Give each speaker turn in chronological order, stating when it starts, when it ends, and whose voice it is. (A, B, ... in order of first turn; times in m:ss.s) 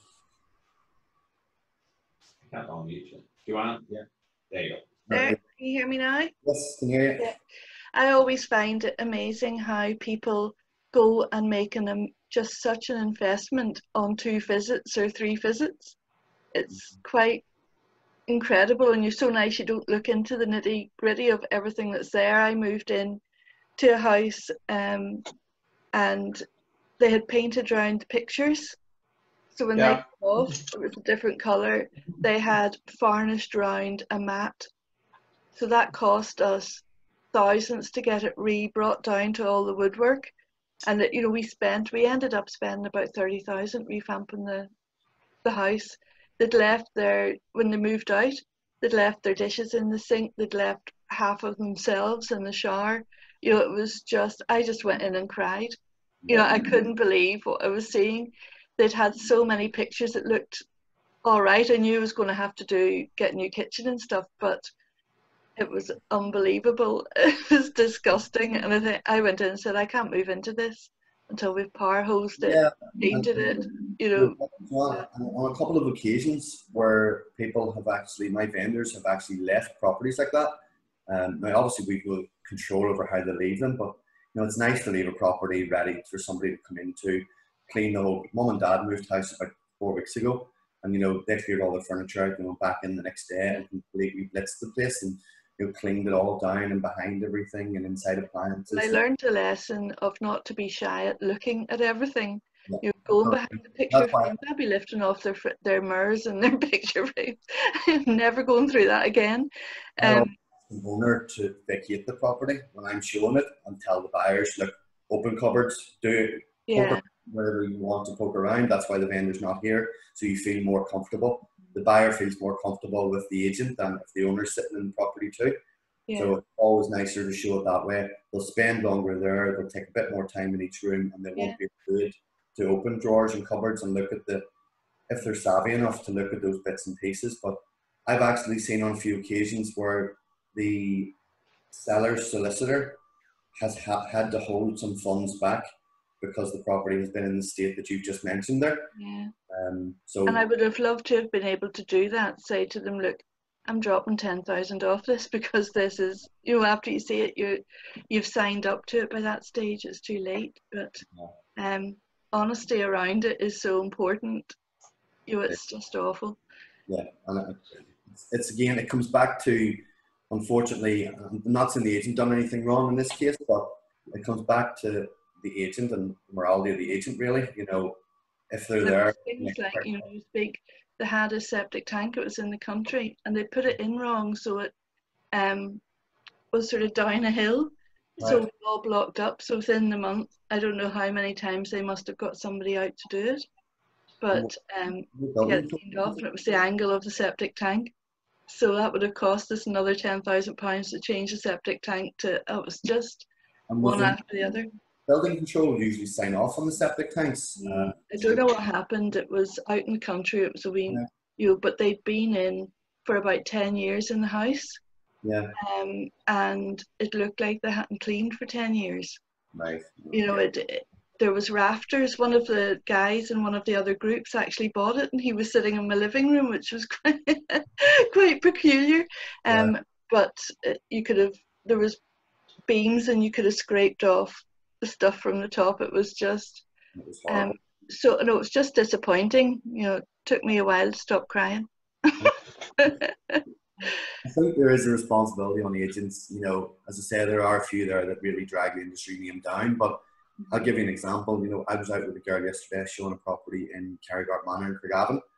0:02.4-0:04.9 A
0:05.1-0:05.4 B
0:05.1-0:06.3 C
0:06.4-0:07.3 B
0:07.9-0:16.0 C
0:16.5-0:17.4 C
0:18.3-0:23.2 C
0:23.8-0:25.2 C
0:25.9-0:26.4 C
0:27.0-0:28.8 C
0:29.5-0:34.7 C
0:35.5-0:40.3 C
0:40.9-0:44.7 C
0:45.4-0:55.8 C
0:56.2-0:56.8 B
0:56.3-1:00.6 C
1:01.2-1:04.7 C
1:05.6-1:14.4 C
1:12.4-1:13.6 B
1:14.1-1:39.0 B
1:38.7-1:50.3 C
1:42.7-1:44.4 B
1:50.0-2:05.6 B
1:56.7-1:57.0 C
2:06.1-2:06.3 C
2:06.2-2:14.5 B
2:15.1-2:21.1 B
2:21.7-2:23.0 B
2:23.6-2:25.7 B
2:26.2-2:28.9 B
2:29.0-2:29.3 C
2:29.5-2:30.4 B
2:30.2-2:41.0 C
2:41.0-2:41.3 B
2:41.6-2:44.5 C
2:45.3-2:46.4 C
2:46.9-2:58.0 B
2:58.5-3:00.0 B
2:58.8-3:04.7 C
3:05.3-3:05.8 C
3:06.5-3:13.4 C
3:08.2-3:08.5 B
3:14.2-3:17.9 C
3:15.1-3:16.2 B
3:18.5-3:23.3 C
3:23.7-3:24.2 B
3:23.8-3:24.7 C
3:25.1-3:28.5 B
3:27.6-3:34.8 C
3:35.2-3:35.5 B
3:35.6-3:39.2 C
3:39.5-3:40.5 B
3:40.1-3:52.0 C
3:49.5-3:49.7 B
3:52.7-3:56.6 C
3:57.0-3:57.6 B
3:57.3-4:03.4 C
4:04.2-4:15.2 B